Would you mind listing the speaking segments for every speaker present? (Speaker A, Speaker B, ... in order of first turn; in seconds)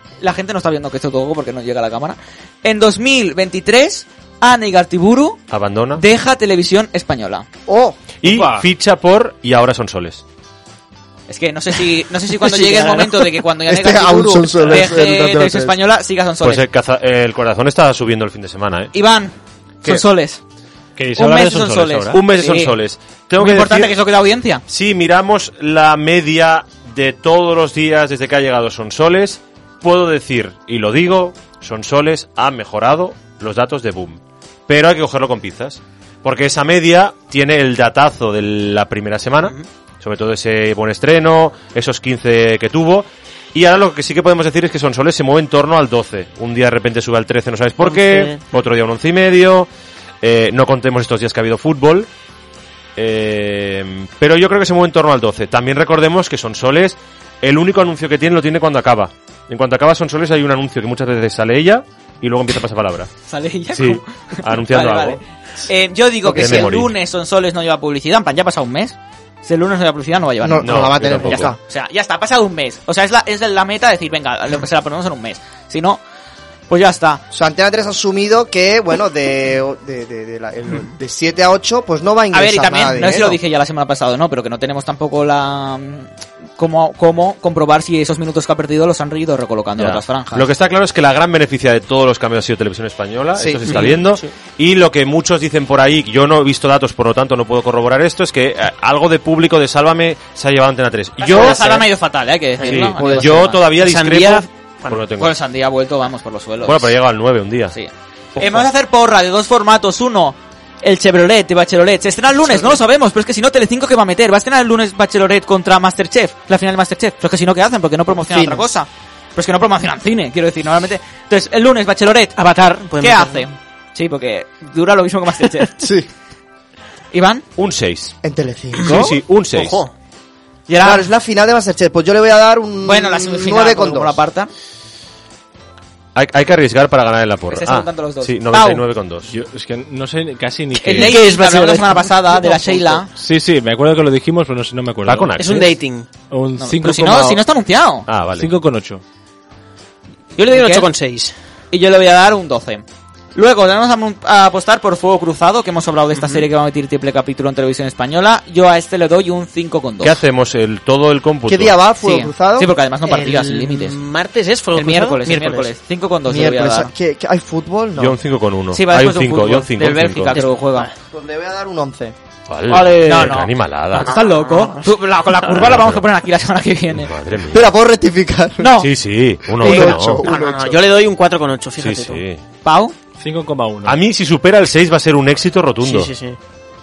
Speaker A: 0.2-5.4, 6.0-7.5, 11.3-16.6, 18.9-20.4, 21.2-22.8, 23.4-24.6, 63.3-76.0, 76.7-77.2, 82.3-90.5, 101.2-103.7, 105.2-107.0, 107.7-122.4, 123.0-125.8, 127.1-127.5, 130.7-131.1, 132.8-134.5, 137.5-138.9, 140.8-143.1, 146.6-148.1, 150.5-150.9, 151.7-152.8, 153.3-160.2, 162.0-164.0, 164.8-166.9, 168.7-170.9, 173.0-177.1, 178.6-178.9, 182.7-182.9
Speaker B: 5.5-6.0, 8.2-10.2, 16.4-18.9, 22.1-23.9, 24.7-49.7, 50.2-52.1, 53.0-63.1, 63.7-65.2, 66.2-67.0, 70.6-71.5, 89.8-101.9, 102.6-105.3, 106.6-107.8, 108.4-108.7, 127.6-128.2, 128.8-129.8, 136.2-139.3, 145.1-145.7, 148.1-148.5, 160.0-161.8, 168.0-170.4, 172.5-174.1, 175.5-176.0, 176.9-177.7, 178.8-180.2, 181.8-182.4, 183.8-186.1
Speaker C: 7.7-8.0, 12.5-13.1, 13.7-15.8, 66.3-66.7, 70.4-71.6, 77.3-83.4, 93.4-93.9, 103.0-103.5, 118.3-118.7, 125.8-126.1, 128.2-129.2, 130.8-134.2, 161.5-162.7, 166.3-168.2, 171.1-172.1, 177.5-178.8, 179.4-180.8
Speaker D: 8.2-8.7, 21.0-22.2, 139.3-141.2, 143.2-145.6, 146.3-147.4, 148.4-149.0, 183.2-184.0
Speaker E: 47.8-48.4, 93.7-94.3, 103.8-105.0, 122.4-123.5, 128.8-129.9, 140.8-143.1, 145.4-146.1, 150.4-151.3, 156.2-156.4, 163.1-165.7, 170.4-170.9, 172.7-173.3, 174.2-174.9, 179.6-182.2, 185.8-186.4